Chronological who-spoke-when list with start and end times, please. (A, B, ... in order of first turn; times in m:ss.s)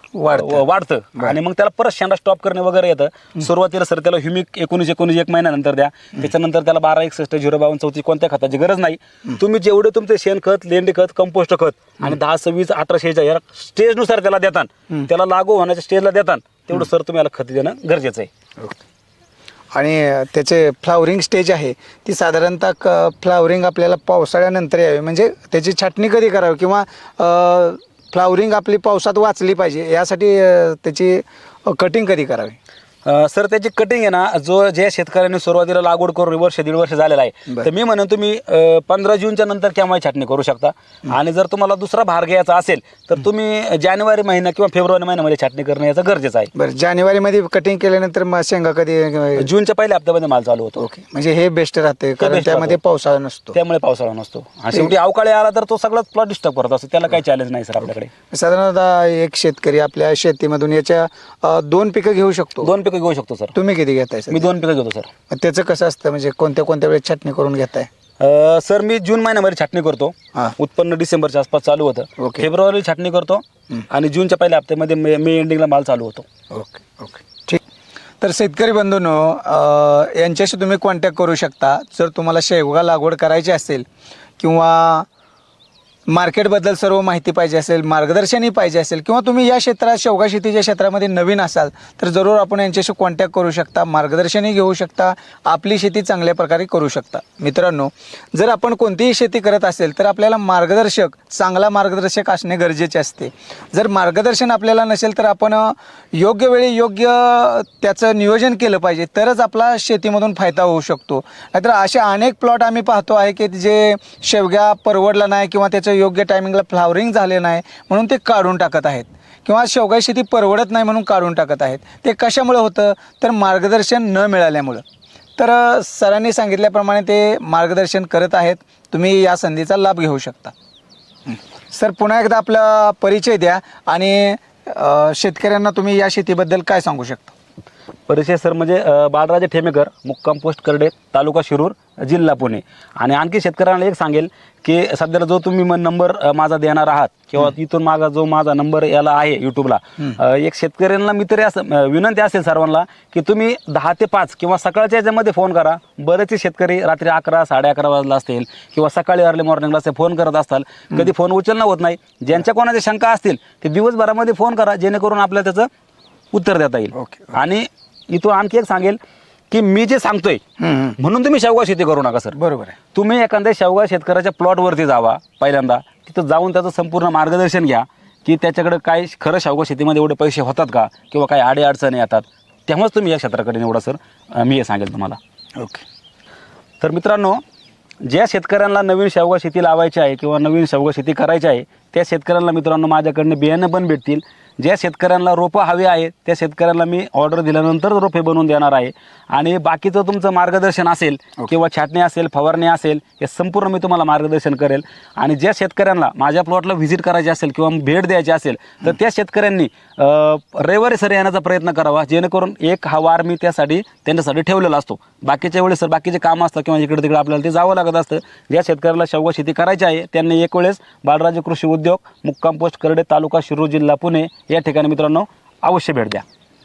0:00.1-0:00.6 A
0:00.3-0:18.3 B
0:19.7-0:32.6 A
0:33.0-0:46.5 B
0:46.5-0:49.5 A
0:49.4-0:50.8 B
0:50.8-0:53.6 A
0:52.2-0:52.8 B
0:53.5-0:58.1 B
0:58.3-1:02.7 A
1:02.6-1:03.5 B
1:03.5-1:04.5 A
1:04.3-1:05.1 B
1:05.3-1:07.9 A
1:08.2-1:16.2 B
1:12.2-1:12.4 A
1:16.5-1:17.6 A
1:18.2-1:23.8 A
1:24.4-1:25.1 A
1:26.1-2:04.8 A
2:05.4-2:10.5 A
2:11.3-2:17.3 A
2:18.1-2:45.7 B
2:46.3-2:49.0 B
2:46.9-2:47.4 A
2:49.5-2:50.4 B
2:50.6-2:51.0 A
2:51.0-2:52.3 B
2:52.3-2:52.8 A
2:52.9-3:05.2 B
3:05.6-3:05.8 A
3:06.8-3:07.4 B
3:08.0-3:46.2 B